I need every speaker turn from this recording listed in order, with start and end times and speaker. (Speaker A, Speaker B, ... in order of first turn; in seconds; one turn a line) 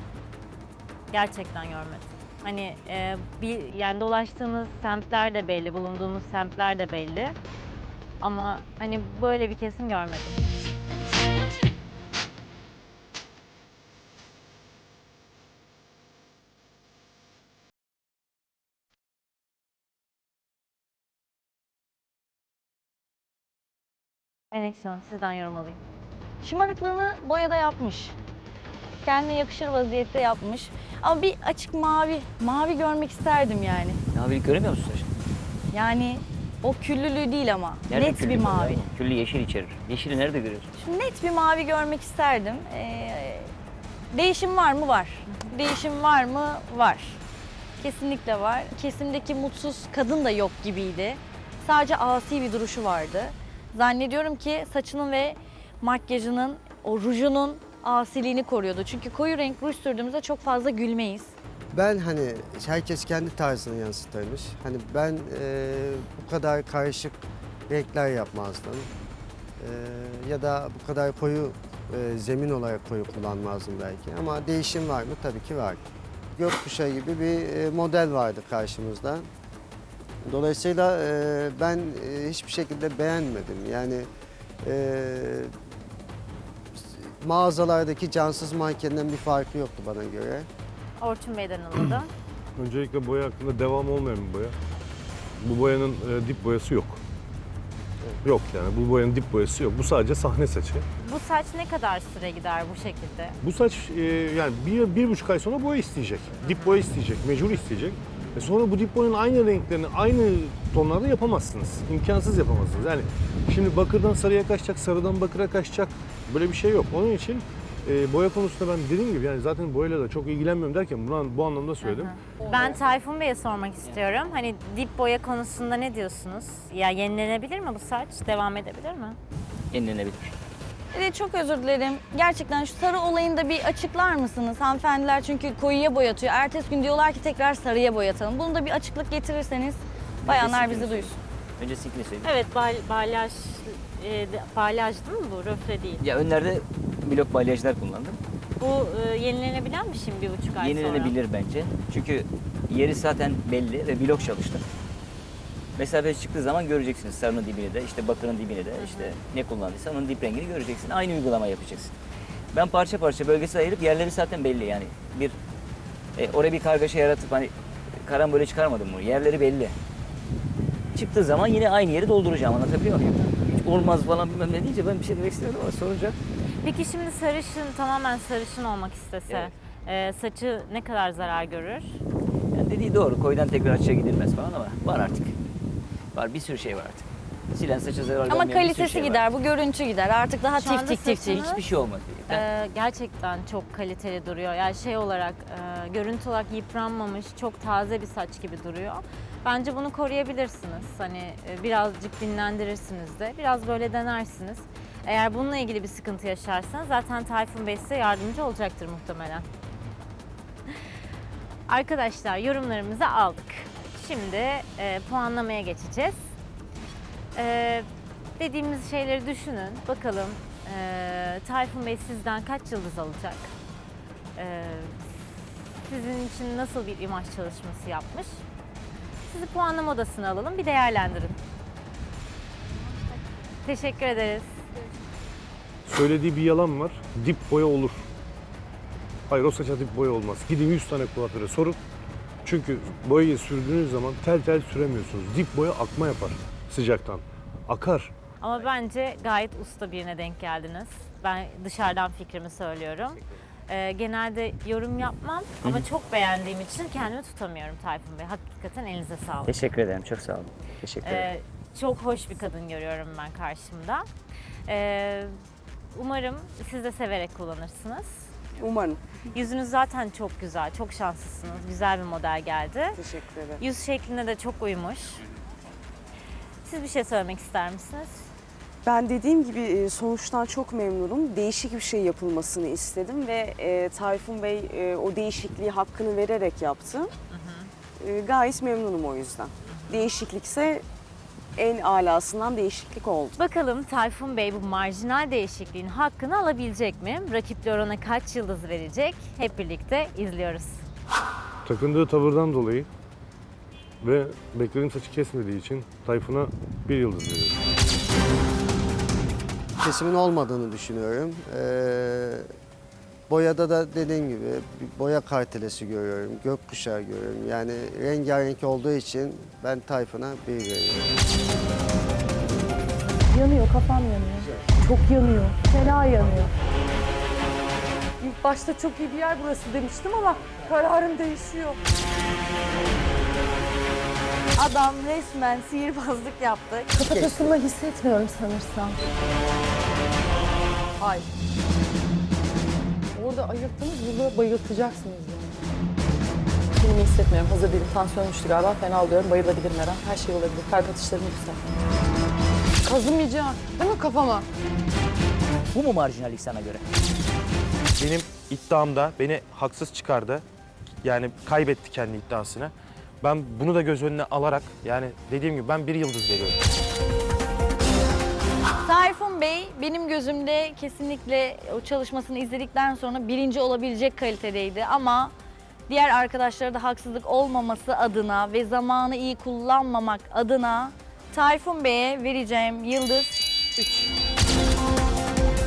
Speaker A: 1.1-7.3
Speaker A: 8.2-10.4
Speaker A: 24.5-25.8
Speaker B: 26.4-28.1
Speaker B: 29.0-34.0
Speaker C: 34.1-35.1
Speaker B: 35.7-38.7
Speaker C: 37.9-40.7
Speaker B: 40.8-43.5
Speaker B: 44.1-47.2
Speaker B: 47.8-61.3
Speaker D: 61.7-67.2
Speaker D: 67.7-68.9
Speaker D: 69.6-75.8
Speaker D: 76.3-79.3
Speaker D: 80.2-84.1
Speaker D: 84.6-85.5
Speaker D: 86.8-90.5
Speaker A: 91.0-92.1
Speaker E: 92.5-94.5
Speaker E: 95.4-97.0
Speaker E: 98.2-100.8
Speaker A: 101.0-103.4
Speaker E: 103.4-122.1
Speaker A: 106.4-106.8
Speaker A: 121.8-129.2
Speaker C: 129.7-130.3
Speaker B: 130.9-141.1
Speaker C: 140.2-142.3
Speaker A: 142.2-146.0
Speaker C: 146.0-148.2
Speaker A: 148.6-151.2
Speaker C: 150.6-154.6
Speaker C: 155.8-161.9
Speaker A: 158.8-159.1
Speaker C: 162.5-165.4
Speaker C: 166.2-169.8
Speaker C: 170.9-176.2
Speaker A: 176.6-182.0
Speaker C: 182.5-185.3
Speaker C: 186.1-189.3
Speaker B: 188.3-191.4
Speaker A: 190.6-191.6
Speaker C: 191.3-192.4
Speaker A: 192.3-209.5
Speaker A: 211.7-216.3
Speaker A: 217.3-217.9
Speaker A: 218.4-223.5
Speaker A: 224.4-225.1
Speaker A: 225.8-228.4
Speaker A: 229.3-231.4
Speaker A: 233.6-234.6
Speaker E: 235.8-238.1
Speaker E: 239.3-241.8
Speaker E: 242.4-248.1
Speaker A: 248.4-259.5
Speaker C: 259.5-261.3
Speaker A: 261.0-264.1
Speaker A: 264.7-265.3
Speaker A: 265.9-268.3
Speaker F: 268.6-269.0
Speaker A: 269.3-273.0
Speaker F: 272.9-273.6
Speaker A: 273.6-275.2
Speaker A: 276.6-278.3
Speaker F: 278.8-287.1
Speaker A: 287.3-287.7
Speaker F: 288.0-290.8
Speaker A: 289.7-290.1
Speaker F: 291.6-293.4
Speaker A: 293.4-300.8
Speaker E: 301.6-302.9
Speaker E: 304.0-307.5
Speaker D: 309.8-312.5
Speaker D: 313.3-321.1
Speaker G: 323.3-326.5
Speaker G: 328.2-331.8
Speaker B: 334.6-337.4
Speaker G: 336.9-339.0
Speaker G: 341.0-341.3
Speaker G: 343.1-345.6
Speaker G: 346.8-351.6
Speaker G: 352.8-354.4
Speaker C: 355.7-356.8
Speaker H: 358.0-360.4
Speaker H: 361.0-366.6
Speaker B: 368.8-375.3
Speaker B: 375.9-383.4